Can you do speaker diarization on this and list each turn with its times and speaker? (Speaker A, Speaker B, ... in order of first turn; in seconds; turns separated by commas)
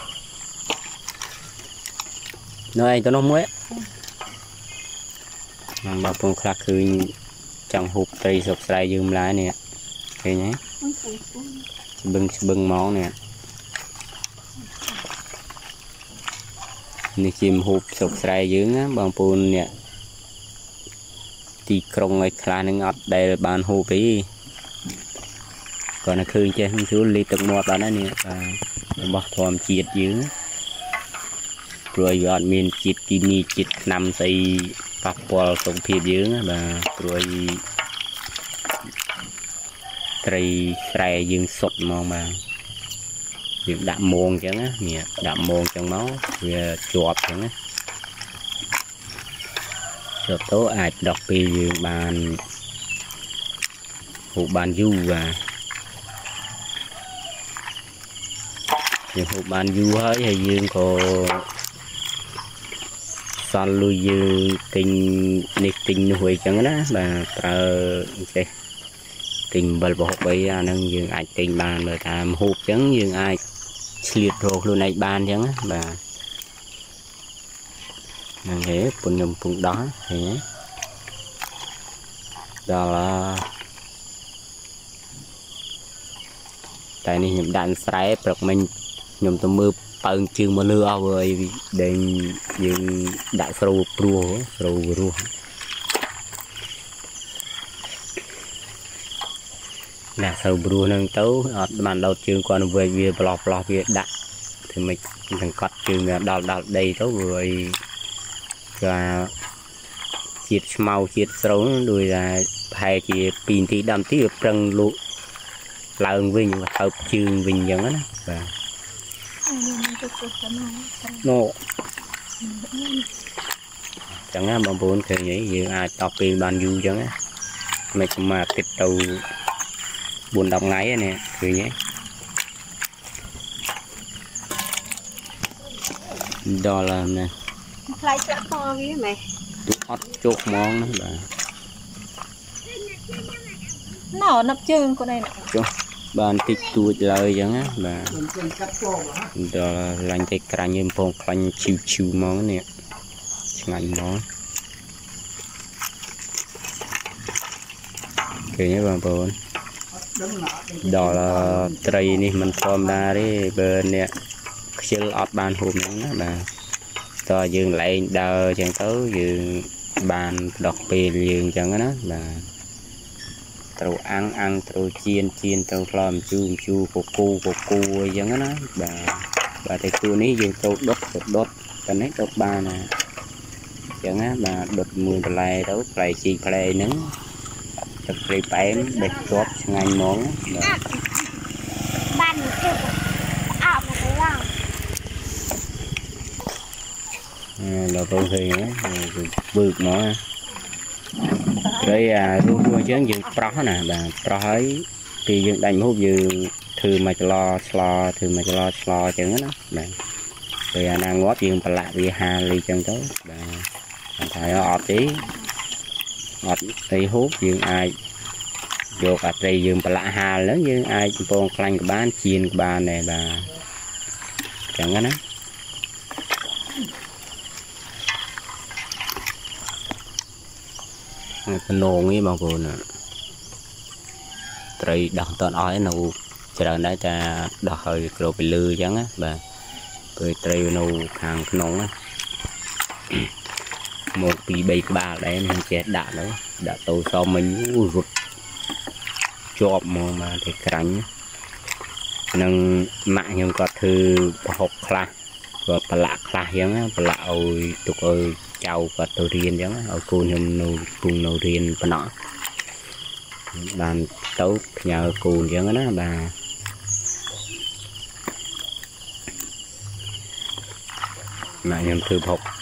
Speaker A: 2.7-3.5, Speaker A: 5.8-7.1, Speaker A: 7.7-9.6, Speaker A: 10.2-10.6, Speaker B: 10.8-11.7, Speaker A: 12.0-13.2, Speaker A: 17.2-19.7, Speaker A: 21.7-24.3, Speaker A: 26.0-30.3, Speaker A: 31.9-37.6, Speaker A: 40.2-42.4, Speaker A: 43.7-47.5, Speaker A: 50.2-52.4, Speaker A: 54.3-55.4, Speaker A: 59.1-61.5, Speaker A: 63.4-68.5, Speaker A: 69.5-73.4, Speaker A: 74.0-76.0, Speaker A: 78.5-80.4, Speaker A: 82.7-83.5, Speaker A: 87.0-88.7, Speaker A: 89.2-95.3, Speaker A: 100.2-104.1, Speaker A: 104.7-107.8, Speaker A: 108.8-109.3, Speaker A: 110.4-115.0, Speaker A: 116.0-118.5, Speaker B: 119.5-121.3, Speaker A: 121.2-121.5, Speaker B: 122.4-123.1, Speaker A: 124.3-127.1, Speaker A: 127.9-129.2, Speaker A: 130.3-131.7, Speaker A: 136.4-137.3, Speaker B: 137.9-139.2, Speaker A: 139.7-141.3, Speaker B: 142.7-145.4, Speaker A: 145.4-148.3, Speaker A: 149.3-152.7, Speaker A: 153.5-154.2, Speaker A: 158.5-159.4, Speaker A: 160.8-164.1, Speaker A: 164.8-166.5, Speaker A: 167.2-172.5, Speaker A: 173.8-182.9, Speaker A: 183.9-187.1, Speaker A: 188.1-190.8, Speaker B: 192.1-193.0, Speaker B: 193.5-194.5, Speaker A: 197.6-200.2, Speaker A: 201.6-210.0, Speaker A: 210.7-215.3, Speaker A: 216.4-217.9, Speaker A: 218.9-223.5, Speaker A: 224.7-225.2, Speaker A: 231.5-232.8, Speaker A: 234.8-239.4, Speaker A: 240.2-241.9, Speaker A: 244.2-248.1, Speaker A: 249.6-251.1, Speaker A: 252.3-255.1, Speaker A: 255.7-262.1, Speaker A: 263.5-266.4, Speaker A: 271.6-272.4